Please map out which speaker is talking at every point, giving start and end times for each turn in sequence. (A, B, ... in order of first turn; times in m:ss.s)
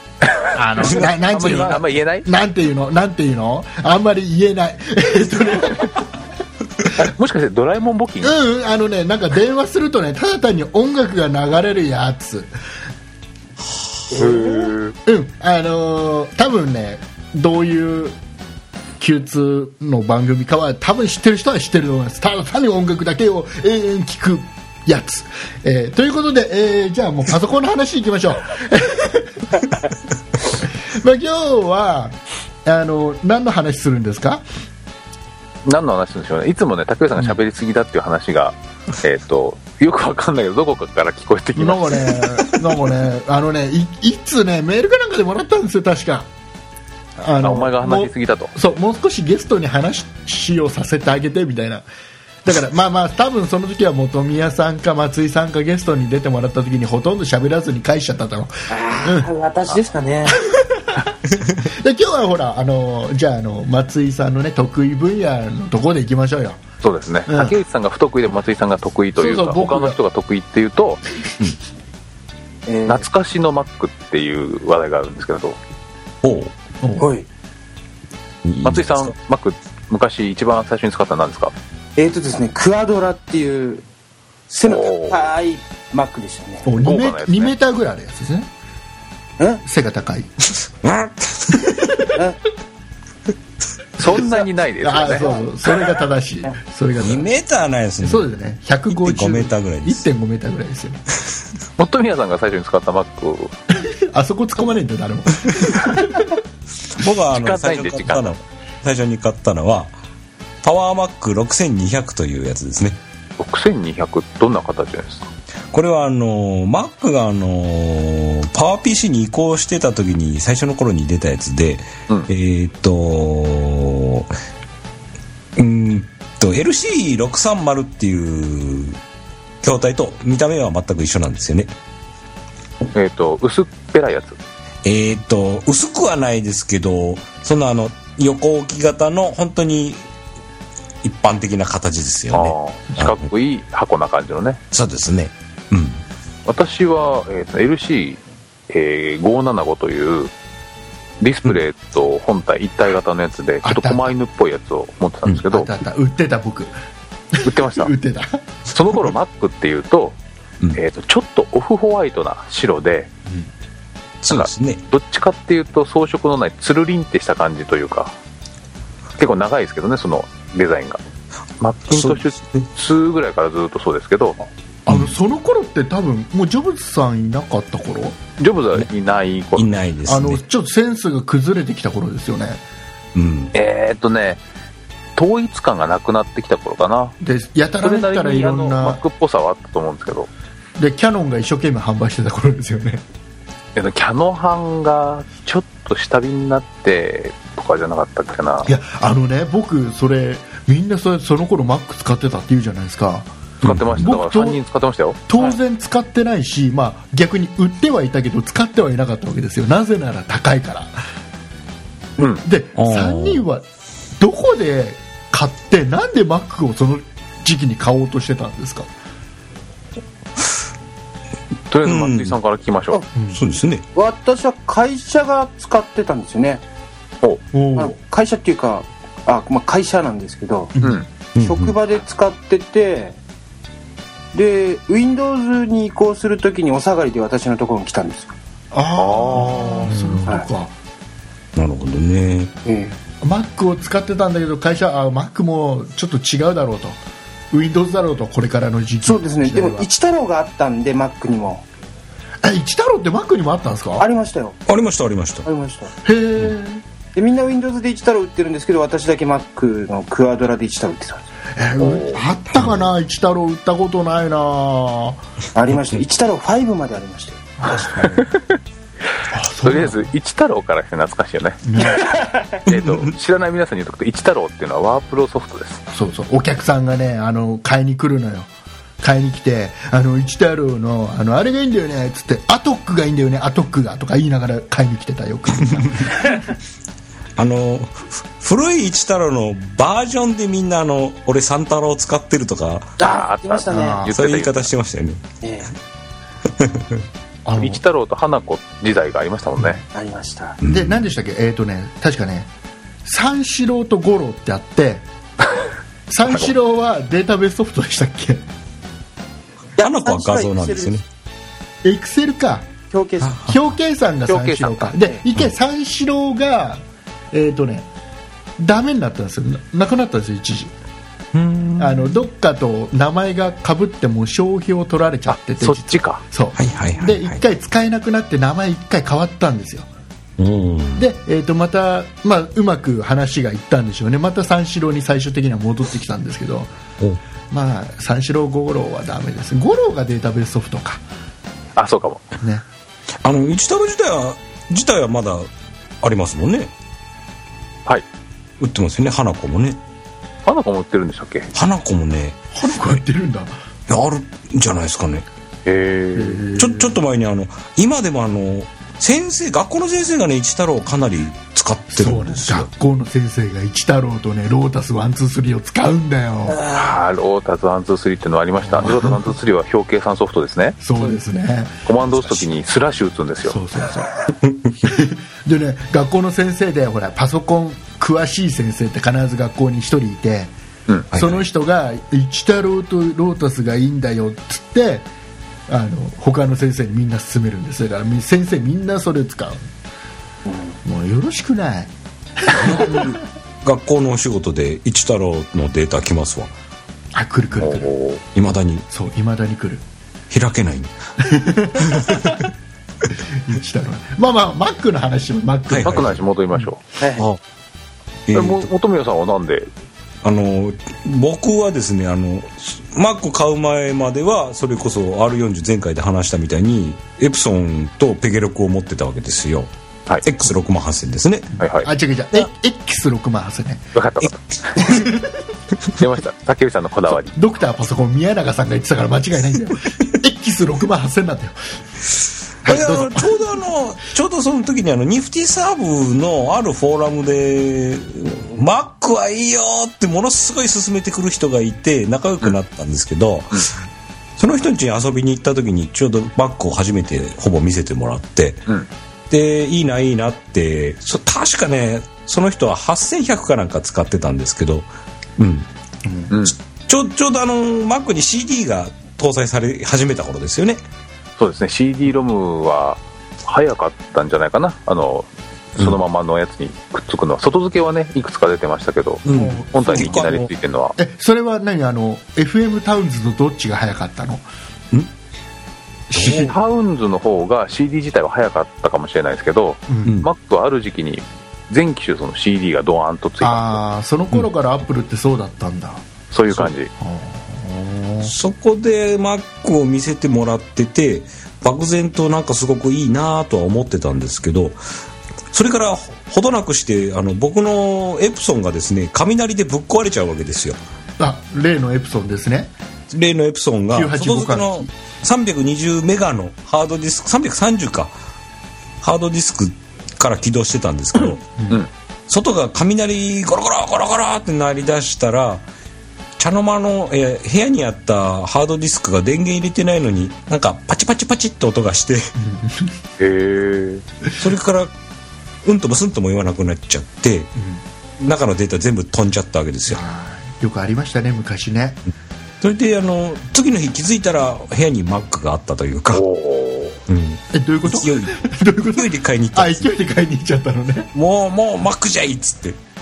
0:00.5-0:06.1 A
0:00.8-0:02.3 B
0:06.9-0:08.4 B
0:08.2-0:12.5 A
0:14.1-0:14.9 B
0:14.2-0:14.5 A
0:15.0-0:18.2 A
0:19.0-0:29.6 A
0:30.5-0:34.4 A
0:35.6-0:42.5 B
0:41.6-0:46.3 A
0:47.2-0:51.8 A
0:47.4-0:48.5 B
0:52.4-0:59.3 A
0:58.7-1:00.4 C
1:00.4-1:06.6 A
1:06.8-1:11.0 B
1:07.3-1:07.6 A
1:09.2-1:10.0 A
1:12.7-1:13.0 C
1:12.9-1:15.6 B
1:16.2-1:16.5 D
1:16.8-1:17.1 A
1:17.0-1:17.3 C
1:18.4-1:19.1 D
1:18.6-1:21.5 B
1:22.0-1:23.8 C
1:24.5-1:26.7 C
1:24.6-1:25.3 B
1:26.6-1:28.5 A
1:26.8-1:27.5 B
1:29.6-1:30.3 A
1:30.8-1:31.7 D
1:32.1-1:32.4 C
1:34.0-1:35.3 B
1:34.1-1:34.4 C
1:34.8-1:37.3 A
1:35.0-1:35.5 C
1:37.0-1:38.3 D
1:38.0-1:41.0 A
1:38.9-1:40.0 D
1:41.8-1:43.5 B
1:43.8-1:46.4 A
1:46.9-1:49.9 D
1:47.3-1:48.3 B
1:50.6-1:53.0 D
1:53.4-1:55.3 B
1:55.7-2:04.3 D
2:05.6-2:09.0 D
2:09.6-2:11.7 D
2:12.9-2:14.4 B
2:14.8-2:20.0 D
2:21.0-2:23.2 D
2:22.3-2:24.6 B
2:24.7-2:26.0 D
2:26.4-2:30.3 B
2:31.2-2:35.7 B
2:33.6-2:34.1 A
2:35.5-2:36.7 A
2:37.3-2:38.4 A
2:37.4-2:37.9 B
2:38.7-2:40.2 B
2:40.7-2:43.1 B
2:44.2-2:44.8 D
2:44.3-2:48.1 B
2:49.2-2:51.0 B
2:51.6-2:54.4 B
2:51.9-2:52.7 D
2:54.4-2:58.2 A
2:54.9-2:55.1 D
2:58.4-2:59.7 B
2:59.6-3:00.4 D
3:00.0-3:02.6 A
3:03.1-3:03.5 D
3:03.5-3:04.4 B
3:05.2-3:07.2 B
3:07.2-3:09.0 A
3:07.8-3:10.3 B
3:10.8-3:13.0 A
3:13.7-3:18.7 B
3:18.6-3:23.3 A
3:23.6-3:24.0 D
3:23.6-3:25.6 B
3:24.0-3:24.6 A
3:25.3-3:30.9 A
3:32.2-3:32.4 B
3:32.4-3:33.6 A
3:32.8-3:33.4 D
3:34.2-3:38.9 A
3:41.7-3:43.0 B
3:41.8-3:42.3 D
3:43.1-3:43.4 A
3:43.3-3:43.8 D
3:43.9-3:46.6 C
3:47.5-3:48.0 A
3:47.8-3:50.7 C
3:50.7-3:51.0 A
3:50.8-3:51.1 B
3:51.4-3:51.8 D
3:51.4-3:53.2 C
3:54.3-3:58.3 C
3:58.7-4:00.7 A
3:59.0-3:59.9 B
3:59.8-4:00.3 D
4:01.6-4:02.5 D
4:02.6-4:03.0 C
4:03.2-4:07.0 A
4:07.5-4:09.9 A
4:09.0-4:11.6 C
4:12.4-4:14.1 A
4:14.0-4:14.6 C
4:14.7-4:15.5 D
4:15.4-4:15.9 C
4:16.0-4:16.8 A
4:17.1-4:21.2 C
4:21.6-4:25.2 A
4:21.8-4:22.2 B
4:25.5-4:27.7 C
4:25.7-4:26.0 D
4:27.6-4:28.3 A
4:28.0-4:28.5 B
4:29.3-4:30.1 A
4:29.6-4:32.0 B
4:31.6-4:32.1 A
4:31.8-4:32.6 C
4:32.6-4:35.8 B
4:32.7-4:33.1 D
4:35.9-4:46.3 A
4:47.4-4:52.9 D
4:53.0-4:54.0 C
4:53.0-4:54.7 B
4:53.7-4:54.1 A
4:54.1-4:55.2 D
4:55.4-4:55.7 C
4:56.6-4:57.0 D
4:57.4-4:57.8 A
4:57.6-4:59.8 B
4:59.9-5:00.6 C
5:00.6-5:01.0 D
5:00.7-5:02.5 A
5:03.0-5:05.0 A
5:06.1-5:08.4 A
5:06.3-5:06.5 B
5:09.8-5:10.9 C
5:09.8-5:11.0 D
5:11.8-5:12.7 A
5:12.9-5:13.4 C
5:13.2-5:13.6 D
5:13.4-5:17.9 A
5:14.3-5:14.9 B
5:18.6-5:20.7 A
5:21.3-5:22.1 D
5:21.8-5:29.9 A
5:25.3-5:26.2 B
5:26.6-5:27.4 D
5:30.4-5:31.0 D
5:31.0-5:36.7 A
5:37.5-5:41.0 A
5:41.8-5:42.2 B
5:43.2-5:45.5 D
5:46.0-5:46.7 D
5:48.6-5:49.8 D
5:50.4-5:51.5 B
5:51.5-5:52.4 D
5:52.5-5:53.5 A
5:53.9-5:55.2 D
5:55.6-5:56.4 B
5:56.1-5:57.0 A
5:56.6-6:02.7 D
6:01.9-6:06.6 A
6:06.6-6:06.9 C
6:06.7-6:10.8 B
6:08.7-6:09.3 A
6:10.8-6:11.8 A
6:11.8-6:13.6 B
6:13.5-6:14.1 A
6:14.8-6:20.5 A
6:21.1-6:21.4 D
6:21.1-6:25.1 A
6:25.7-6:29.6 A
6:30.4-6:30.7 C
6:30.8-6:33.2 A
6:32.6-6:36.5 D
6:37.1-6:37.9 A
6:37.6-6:38.2 B
6:38.3-6:38.8 D
6:38.9-6:39.8 A
6:40.3-6:40.9 D
6:41.2-6:42.4 A
6:41.8-6:42.4 D
6:43.3-6:46.1 A
6:45.7-6:46.2 D
6:45.8-6:46.8 B
6:47.0-6:47.3 C
6:48.3-6:48.7 D
6:48.3-6:49.7 B
6:50.2-6:59.7 D
7:00.2-7:01.5 D
7:01.5-7:03.9 A
7:01.6-7:01.9 B
7:03.9-7:05.0 B
7:04.8-7:05.5 A
7:05.9-7:07.3 B
7:07.3-7:11.6 A
7:12.6-7:13.6 A
7:12.6-7:23.7 D
7:24.4-7:28.6 D
7:29.3-7:35.7 D
7:36.0-7:36.3 A
7:36.3-7:36.6 B
7:36.8-7:40.8 D
7:41.4-7:51.0 B
7:49.2-7:50.5 D
7:49.3-7:50.3 A
7:51.0-7:54.4 A
7:56.1-7:56.5 A
7:56.2-7:56.5 D
7:56.2-8:03.8 B
7:59.9-8:00.1 A
8:00.0-8:00.3 D
8:03.4-8:06.0 A
8:06.3-8:06.9 B
8:07.0-8:08.3 A
8:08.2-8:14.8 D
8:15.5-8:20.8 D
8:21.2-8:22.7 A
8:23.1-8:28.1 D
8:23.9-8:24.9 A
8:29.0-8:31.4 D
8:32.3-8:35.6 D
8:36.4-8:42.3 D
8:42.4-8:43.0 A
8:43.2-8:44.0 B
8:44.4-8:44.9 D
8:45.6-8:47.5 D
8:47.6-8:47.8 A
8:48.2-8:50.0 D
8:49.9-8:52.0 A
8:52.6-8:56.2 D
8:56.1-8:57.0 B
8:57.1-8:59.9 D
8:57.5-9:01.1 A
9:01.1-9:02.8 D